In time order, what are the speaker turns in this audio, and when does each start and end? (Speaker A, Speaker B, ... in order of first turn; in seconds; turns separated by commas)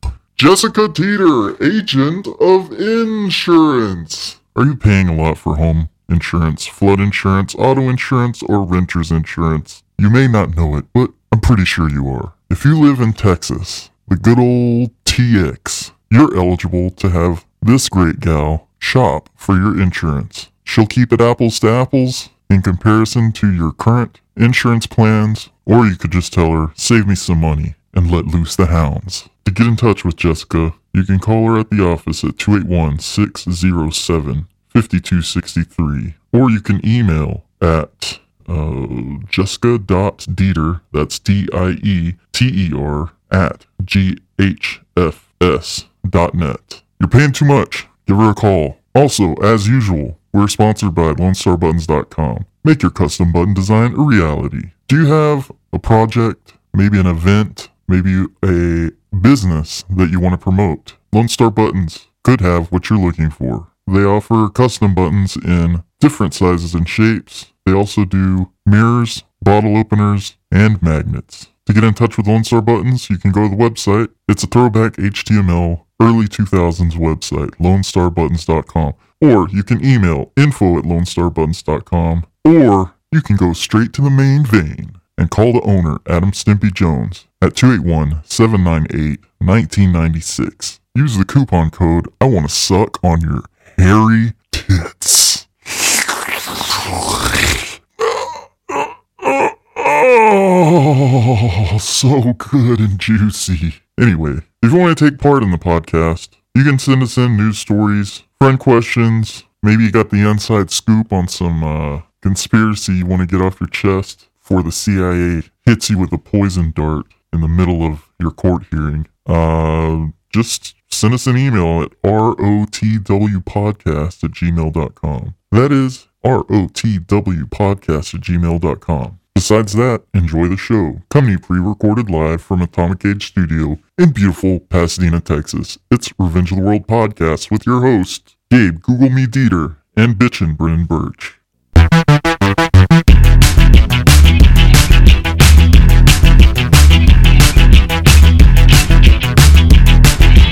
Speaker A: 0.3-141.3